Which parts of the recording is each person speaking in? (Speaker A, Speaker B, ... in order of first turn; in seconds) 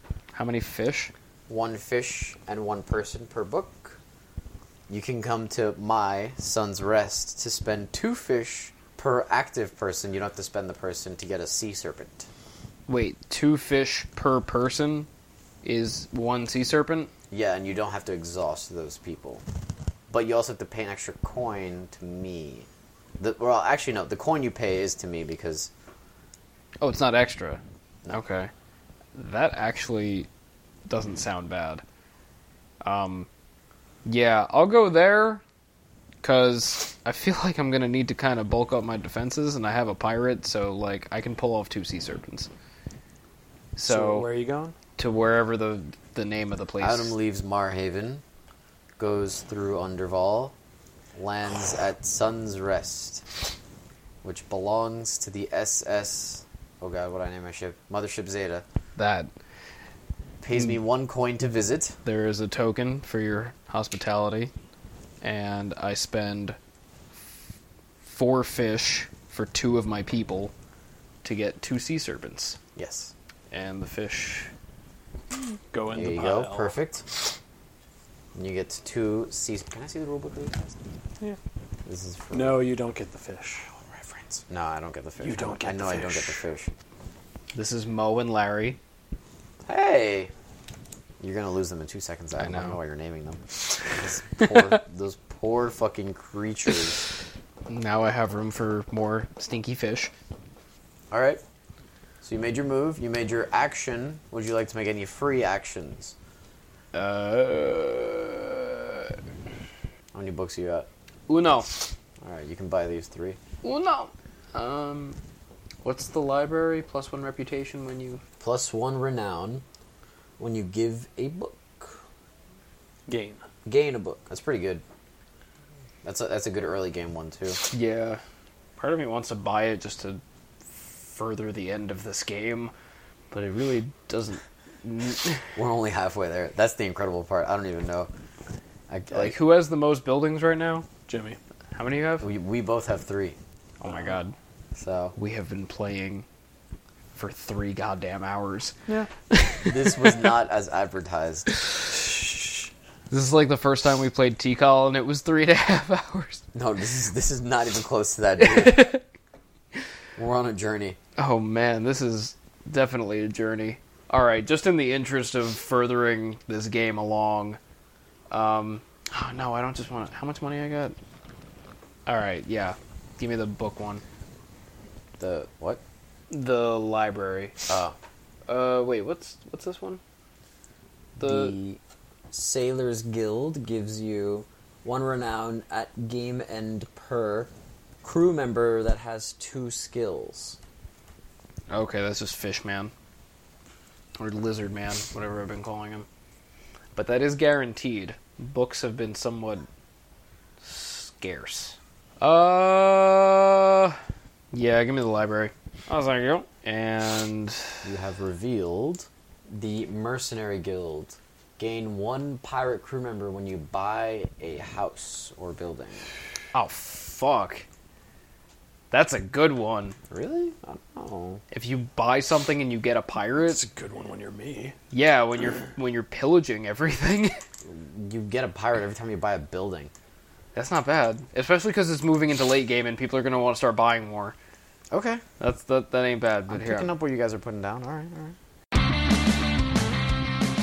Speaker A: 0.3-1.1, 12.9-15.1, 15.6-17.1, 26.8-28.5, 29.1-30.3, 30.9-31.8, 32.8-33.3, 34.0-35.4, 36.2-42.5, 43.8-44.3, 45.0-47.1, 59.0-59.3, 60.5-60.8, 62.0-64.5, 65.2-66.6, 68.0-70.5, 71.2-72.6, 73.5-74.5, 87.5-88.8, 92.4-92.8, 94.4-94.7, 97.7-100.1, 106.9-109.2, 111.3-111.7, 113.6-115.2, 115.8-118.2, 127.7-128.2, 128.8-132.7, 133.3-135.5, 139.1-140.9, 141.7-142.3, 143.8-144.3, 145.1-146.2, 147.1-148.7, 149.3-150.3, 151.6-151.8, 153.1-156.4, 158.4-159.0, 161.2-167.6, 168.3-170.9, 172.1-174.0, 176.3-177.6, 178.5-180.0, 181.2-181.6, 191.7-192.9, 194.2-196.1, 196.9-199.7, 200.6-204.0, 204.5-207.8, 216.5-217.6, 218.9-220.0, 221.5-223.6, 224.9-227.3, 230.5-234.3, 235.4-236.9
Speaker B: 1.5-4.0, 4.9-12.3, 17.3-19.4, 20.1-22.7, 23.2-25.7, 46.8-48.2, 49.0-50.5, 51.1-53.2, 54.2-58.6, 60.4-62.0, 72.8-73.1, 75.9-77.1, 78.3-80.8, 81.8-82.7, 83.8-86.8, 89.7-90.3, 91.2-97.1, 101.1-101.4, 102.2-106.2, 110.1-110.9, 112.2-113.4, 118.4-119.6, 120.4-122.0, 123.7-124.8, 126.0-127.6, 135.6-138.1, 138.9-139.4, 142.2-143.4, 144.8-145.1, 149.7-151.5, 156.5-158.8, 160.2-161.0, 175.2-175.8, 177.7-177.9, 181.2-181.8, 182.3-187.5, 188.0-190.6, 207.8-216.1, 220.1-221.4, 227.6-229.9, 234.9-235.2, 236.5-238.3
Speaker C: 43.8-44.7, 75.3-76.7, 82.3-83.7, 85.2-86.4, 123.1-123.4, 141.1-141.4, 223.5-224.7